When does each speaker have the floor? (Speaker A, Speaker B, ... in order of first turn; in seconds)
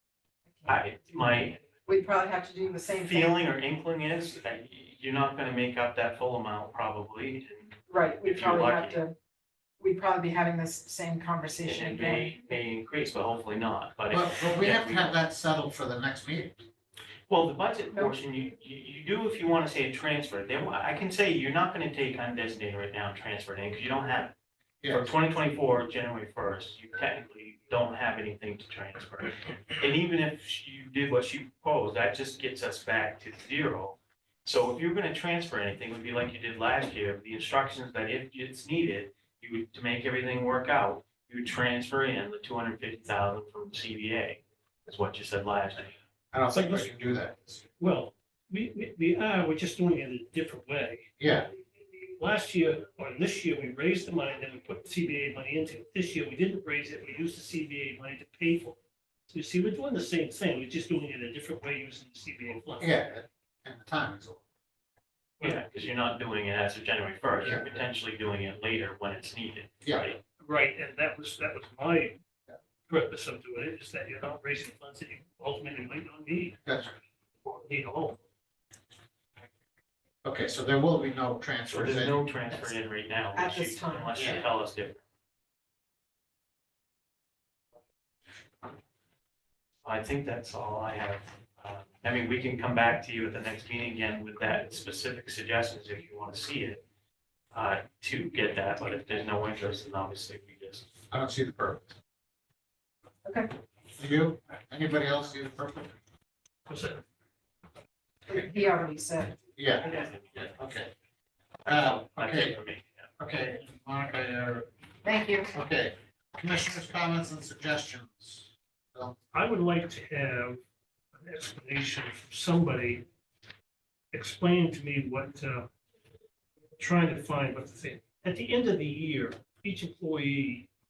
Speaker A: 0.7-1.6, 2.9-9.0, 11.6-15.2, 17.3-24.3, 24.9-46.0, 65.4-70.2, 81.7-85.0, 89.8-96.8, 97.5-100.9, 109.8-110.5, 111.7-113.1
Speaker B: 1.8-3.4, 7.9-9.1, 9.8-12.3, 83.3-84.4, 108.3-109.4, 115.0-115.5
Speaker C: 14.1-16.6, 24.8-25.1, 46.3-47.6, 51.2-51.5, 62.8-64.4, 69.8-70.1, 76.7-76.9, 80.2-82.5, 84.1-84.4, 101.1-102.0, 104.0-105.9, 109.5-110.9, 111.6-112.6, 113.2-114.7, 115.5-119.2
Speaker D: 46.5-46.9, 47.8-51.2, 52.1-58.8, 59.3-63.0, 70.4-72.2, 72.9-76.6, 77.4-78.2, 106.7-107.0, 119.3-120.6, 121.1-123.0, 124.1-125.7, 126.8-130.7